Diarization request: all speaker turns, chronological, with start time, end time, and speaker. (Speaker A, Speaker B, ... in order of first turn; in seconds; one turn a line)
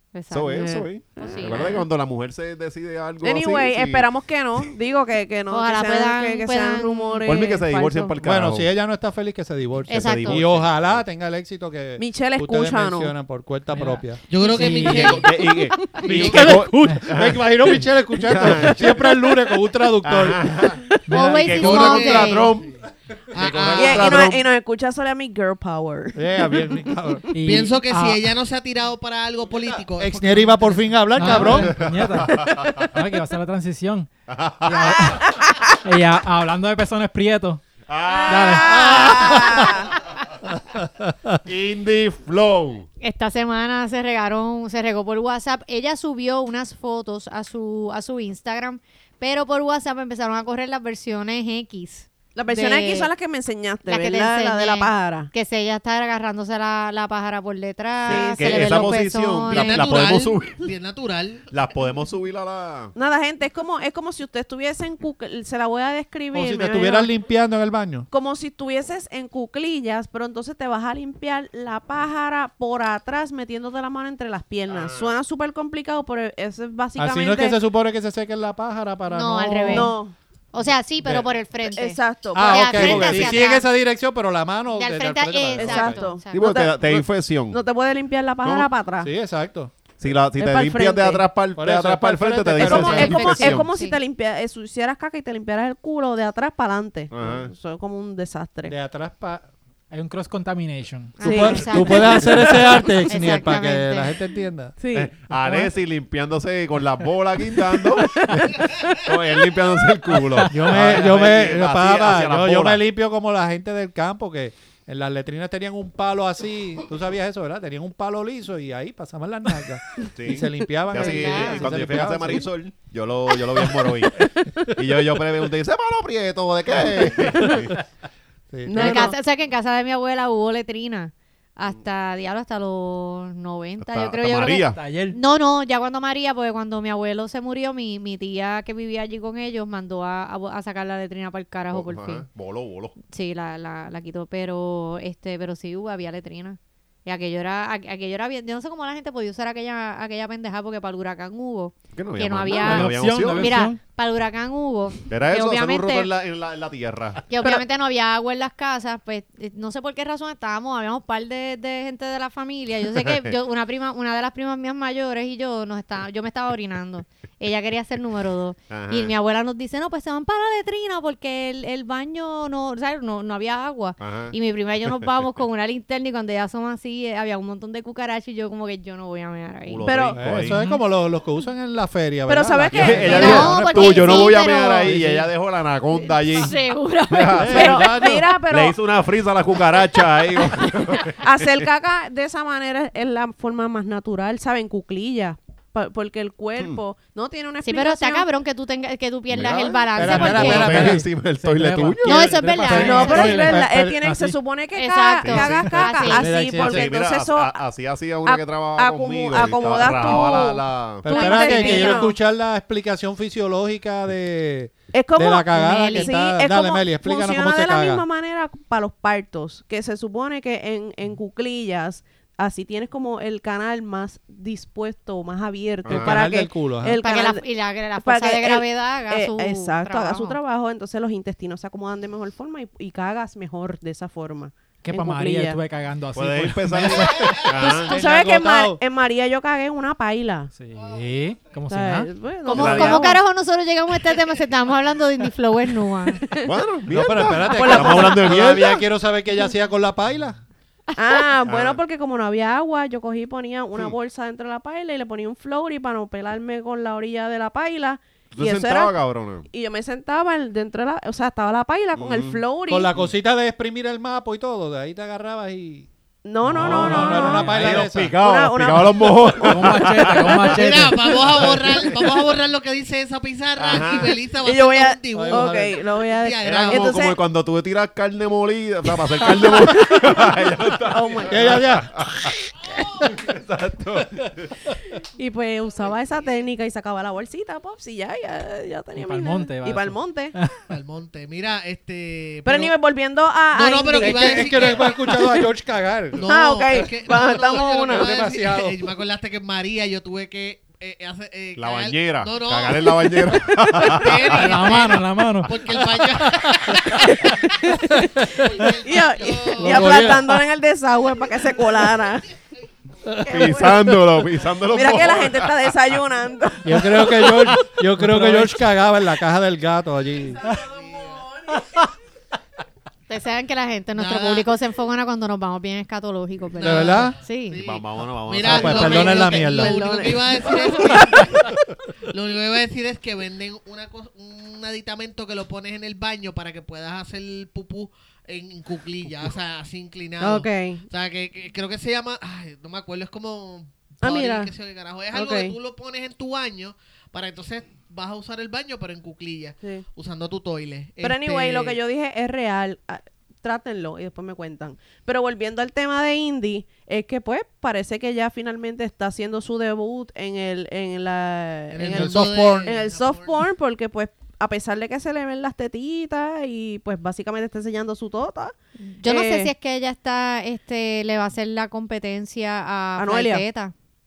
Speaker A: 0.1-1.8
Speaker B: 0.3-4.1
Speaker C: 1.2-1.8
Speaker C: 3.2-8.2
Speaker A: 5.5-7.3
Speaker B: 7.2-8.7
Speaker D: 8.2-14.2
Speaker A: 9.9-10.4
Speaker B: 9.9-11.1
Speaker C: 12.0-13.1
Speaker E: 13.7-15.3
Speaker F: 14.3-16.6
Speaker B: 14.6-19.3
Speaker C: 15.8-16.1
Speaker D: 16.0-20.7
Speaker B: 20.0-22.8
Speaker E: 21.1-21.6
Speaker A: 21.1-22.6
Speaker F: 21.6-22.5
Speaker F: 23.3-24.2
Speaker B: 23.3-24.5
Speaker C: 23.7-26.3
Speaker D: 26.1-27.3
Speaker E: 27.3-28.3
Speaker F: 27.5-31.0
Speaker D: 30.0-31.9
Speaker E: 31.1-34.1
Speaker B: 31.4-32.9
Speaker B: 34.3-35.2
Speaker E: 34.6-35.3
Speaker C: 35.0-35.8
Speaker E: 35.8-37.6
Speaker B: 37.9-39.9
Speaker C: 38.1-39.9
Speaker E: 38.3-39.3
Speaker D: 38.9-39.8
Speaker D: 41.0-41.4
Speaker B: 41.4-42.9
Speaker A: 43.0-53.1
Speaker C: 52.4-55.3
Speaker A: 53.9-59.9
Speaker C: 58.0-58.9
Speaker B: 58.1-60.7
Speaker F: 59.5-61.5
Speaker B: 61.5-63.0
Speaker C: 63.0-67.1
Speaker D: 66.3-68.1
Speaker C: 68.1-77.6
Speaker B: 74.7-75.2
Speaker D: 77.0-79.9
Speaker A: 79.1-80.0
Speaker C: 79.7-80.2
Speaker A: 80.5-83.7
Speaker C: 81.6-83.0
Speaker D: 82.3-86.1
Speaker B: 82.7-83.4
Speaker A: 84.7-86.4
Speaker C: 85.6-89.1
Speaker B: 86.3-87.6
Speaker B: 88.4-88.7
Speaker D: 89.0-89.7
Speaker B: 90.0-93.7
Speaker C: 90.3-91.3
Speaker D: 91.6-93.5
Speaker C: 92.6-98.8
Speaker A: 92.6-94.0
Speaker B: 97.1-97.5
Speaker D: 98.7-99.5
Speaker E: 99.9-101.2
Speaker A: 101.2-104.2
Speaker C: 101.2-102.8
Speaker D: 101.2-104.8
Speaker C: 104.8-105.7
Speaker B: 104.9-112.8
Speaker C: 108.0-109.0
Speaker D: 110.5-122.5
Speaker B: 120.1-127.8
Speaker A: 120.9-121.7
Speaker C: 124.2-124.7
Speaker D: 126.8-127.7
Speaker C: 127.3-127.6
Speaker D: 128.5-129.1
Speaker C: 128.7-129.2
Speaker A: 128.7-142.3
Speaker B: 133.8-134.8
Speaker E: 134.7-135.2
Speaker B: 141.7-143.0
Speaker A: 143.0-156.1
Speaker B: 151.9-153.6
Speaker E: 152.5-153.8
Speaker B: 155.1-157.2
Speaker A: 157.3-179.8
Speaker B: 168.7-169.1
Speaker B: 174.0-174.4
Speaker B: 179.7-180.6
Speaker C: 179.8-180.2
Speaker D: 180.2-185.3
Speaker E: 180.5-180.8
Speaker C: 182.3-183.6
Speaker B: 182.7-186.6
Speaker A: 183.1-185.0
Speaker A: 186.1-187.8
Speaker B: 187.1-191.6
Speaker D: 187.3-188.3
Speaker C: 187.5-188.8
Speaker C: 191.2-198.3
Speaker A: 197.6-201.0
Speaker B: 199.3-202.3
Speaker D: 200.0-204.0
Speaker A: 202.0-203.4
Speaker E: 202.0-204.4
Speaker C: 202.7-207.6
Speaker A: 204.8-206.3
Speaker B: 205.2-205.7
Speaker D: 206.1-206.9
Speaker E: 206.2-206.8
Speaker B: 206.6-211.9
Speaker C: 208.2-212.2
Speaker D: 209.9-210.2
Speaker D: 211.0-218.1
Speaker A: 211.1-212.0
Speaker C: 214.9-227.4
Speaker A: 215.6-216.2
Speaker B: 225.8-226.2
Speaker D: 225.9-227.0
Speaker A: 227.0-230.4
Speaker C: 228.0-235.6
Speaker E: 234.8-237.4
Speaker B: 236.1-238.0
Speaker C: 237.6-240.5
Speaker D: 237.7-238.8
Speaker E: 240.5-242.1
Speaker C: 241.7-243.2
Speaker A: 242.4-246.3
Speaker B: 242.6-243.1
Speaker C: 246.1-246.5
Speaker B: 246.4-248.8
Speaker D: 246.9-250.4
Speaker C: 251.0-259.0
Speaker B: 251.5-251.8
Speaker B: 258.3-259.5
Speaker C: 259.5-262.9
Speaker B: 262.0-263.1
Speaker D: 262.7-265.9
Speaker C: 266.2-269.3
Speaker D: 266.4-268.2
Speaker B: 266.5-272.1
Speaker E: 266.6-267.1
Speaker E: 269.4-271.2
Speaker F: 270.4-276.9
Speaker B: 273.6-274.2
Speaker C: 274.4-277.2
Speaker D: 275.1-275.8
Speaker B: 276.4-284.6
Speaker C: 279.0-281.7
Speaker D: 281.3-282.3
Speaker C: 285.0-290.4
Speaker E: 288.9-290.6
Speaker F: 290.7-292.7
Speaker C: 292.4-295.5
Speaker F: 293.5-295.0
Speaker D: 294.0-296.2
Speaker C: 296.1-298.1
Speaker F: 296.1-303.2
Speaker D: 297.9-298.8
Speaker B: 301.6-304.5
Speaker C: 303.5-303.9
Speaker F: 303.8-310.1
Speaker E: 304.3-305.6
Speaker D: 306.7-307.1
Speaker C: 307.1-307.4
Speaker C: 307.9-312.3
Speaker D: 307.9-308.4
Speaker D: 309.6-310.4
Speaker D: 313.1-314.1
Speaker C: 313.2-313.9
Speaker B: 313.3-315.8
Speaker C: 314.7-317.8
Speaker D: 316.6-320.5
Speaker E: 318.0-318.5
Speaker C: 320.4-321.6
Speaker F: 320.5-321.2
Speaker A: 323.1-327.6
Speaker F: 324.0-324.5
Speaker F: 326.6-331.6
Speaker D: 326.6-327.2
Speaker B: 327.6-329.4
Speaker D: 328.4-329.9
Speaker C: 329.3-331.3
Speaker F: 332.1-351.8
Speaker C: 340.2-340.9
Speaker C: 344.0-344.5
Speaker C: 345.1-345.6
Speaker C: 351.0-369.5
Speaker F: 361.7-363.4
Speaker D: 361.9-362.6
Speaker A: 368.8-373.7
Speaker C: 373.0-373.5